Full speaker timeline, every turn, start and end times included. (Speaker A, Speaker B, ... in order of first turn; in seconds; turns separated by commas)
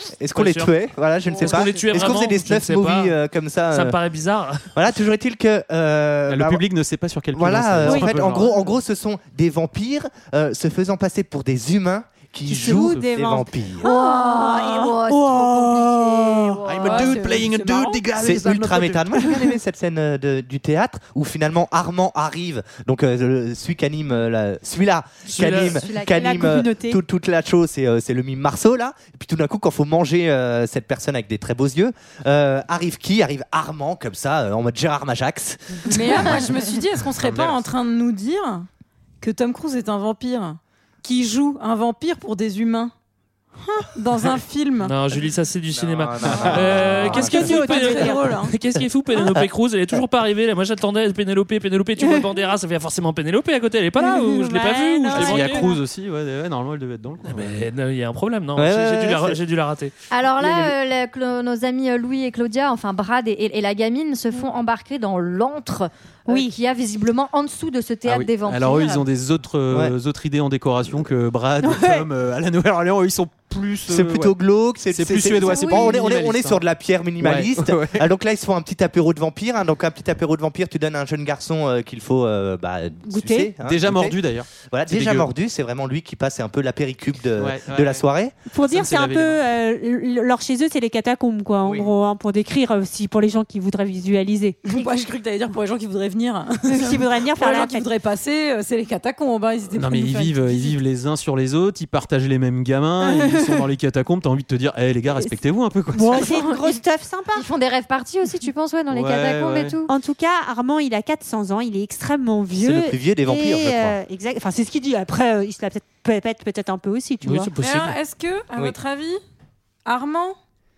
Speaker A: 0.2-4.0, Speaker B: 0.3-0.7, Speaker B: 1.4-3.1, Speaker C: 1.4-1.6, Speaker B: 3.7-4.7, Speaker A: 4.7-6.6, Speaker D: 6.3-8.8, Speaker A: 7.3-13.9, Speaker E: 7.8-8.1, Speaker E: 12.5-14.0, Speaker F: 13.8-17.1, Speaker E: 14.6-14.9, Speaker A: 15.1-16.5, Speaker D: 16.6-19.4, Speaker C: 16.8-18.0, Speaker A: 18.2-35.9, Speaker B: 25.3-25.8, Speaker F: 25.6-26.4, Speaker E: 26.1-27.0, Speaker C: 35.9-38.7, Speaker D: 37.2-37.7, Speaker C: 39.2-42.9, Speaker C: 43.6-44.9, Speaker B: 44.8-55.7, Speaker A: 45.7-47.5, Speaker D: 46.2-46.9, Speaker C: 47.1-48.5, Speaker E: 47.1-48.3, Speaker E: 52.0-52.2, Speaker E: 54.0-55.8, Speaker D: 55.1-57.6, Speaker B: 57.2-59.9, Speaker A: 58.5-59.4, Speaker F: 60.1-69.0, Speaker A: 60.4-60.7, Speaker E: 66.3-66.5, Speaker D: 68.0-74.3, Speaker E: 71.6-72.0, Speaker A: 73.9-88.3, Speaker D: 74.9-76.6, Speaker D: 77.2-78.1, Speaker E: 83.1-83.5, Speaker D: 83.6-85.3, Speaker D: 87.4-88.0, Speaker E: 88.5-94.8, Speaker D: 88.6-89.4, Speaker D: 91.6-91.9, Speaker C: 94.6-100.7, Speaker E: 96.7-97.9, Speaker D: 99.7-106.4, Speaker E: 105.9-107.5, Speaker F: 106.1-106.8, Speaker F: 107.3-109.9, Speaker D: 108.9-109.8, Speaker E: 109.9-117.5, Speaker A: 112.6-114.0, Speaker B: 117.2-118.0, Speaker C: 117.6-119.2, Speaker C: 119.8-120.4